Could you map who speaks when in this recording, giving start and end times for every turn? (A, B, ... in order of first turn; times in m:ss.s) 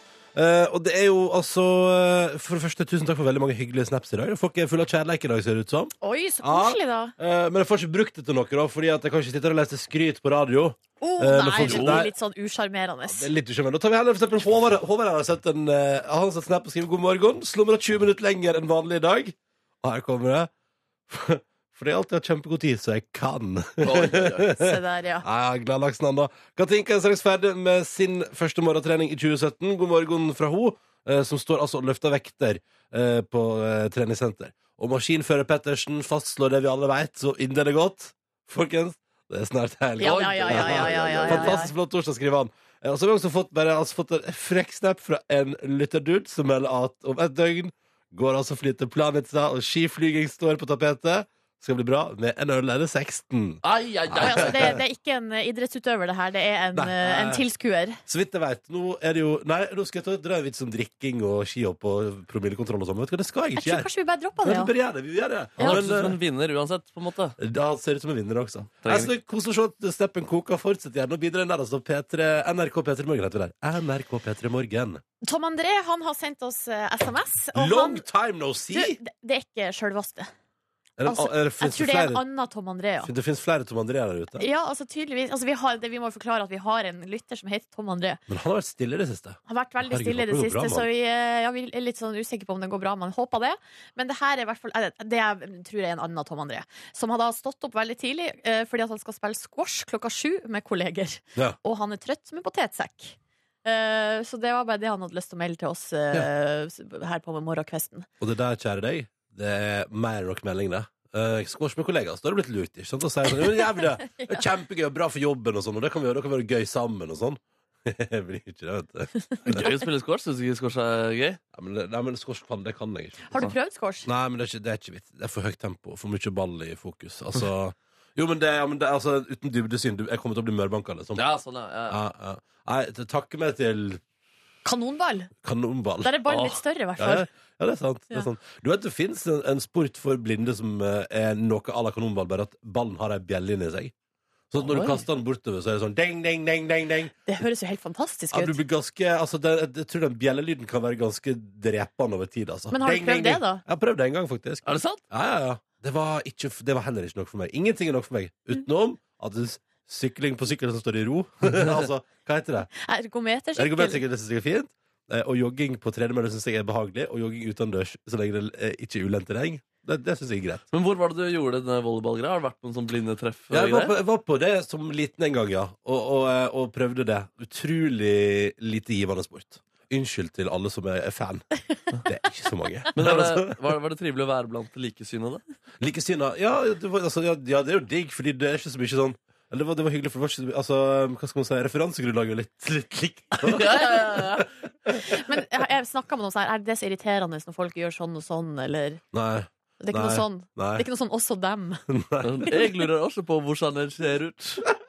0:00.4-0:12.1 A
0:06.0-0:07.1 B
0:11.0-0:13.3 B
0:11.6-0:12.0 C
0:13.0-0:20.5 A
0:21.1-0:54.8 A
0:23.8-0:24.5 C
0:24.5-0:25.2 B
0:40.0-0:41.7 B
0:40.0-0:41.6 C
0:53.6-0:54.8 C
0:54.2-0:58.0 B
0:56.7-0:57.4 A
0:58.1-1:03.9 A
1:03.6-1:04.7 B
1:04.4-1:06.2 A
1:05.6-1:07.4 C
1:07.4-1:15.0 A
1:08.8-1:09.1 C
1:15.2-1:18.0 B
1:17.6-1:19.0 A
1:18.7-1:20.3 B
1:21.0-1:22.2 A
1:21.0-1:23.1 B
1:23.0-1:24.5 A
1:24.4-1:28.2 B
1:28.3-1:30.9 A
1:29.5-1:48.1 B
1:48.2-1:59.6 A
1:53.6-1:54.5 B
1:59.5-2:01.4 C
2:01.5-2:03.5 A
2:03.3-2:04.1 B
2:04.0-2:11.3 A
2:11.2-2:12.0 C
2:11.9-2:14.0 A
2:14.6-2:15.3 B
2:15.4-2:16.3 A
2:16.0-2:17.3 B
2:16.3-2:16.6 C
2:17.0-2:23.9 A
2:24.5-2:27.1 A
2:24.6-2:25.0 C
2:27.3-2:28.6 B
2:28.3-2:42.7 A
2:32.7-2:33.6 B
2:34.7-2:35.0 C
2:42.8-2:44.0 B
2:43.6-2:50.6 A
2:50.7-2:53.9 C
2:53.5-3:01.4 A
3:02.0-3:03.6 A
3:03.0-3:05.4 C
3:05.8-3:15.2 A
3:13.4-3:14.5 C
3:15.0-3:19.0 B
3:19.1-3:20.8 A
3:19.8-3:21.8 B
3:21.9-3:22.7 A
3:22.2-3:24.7 C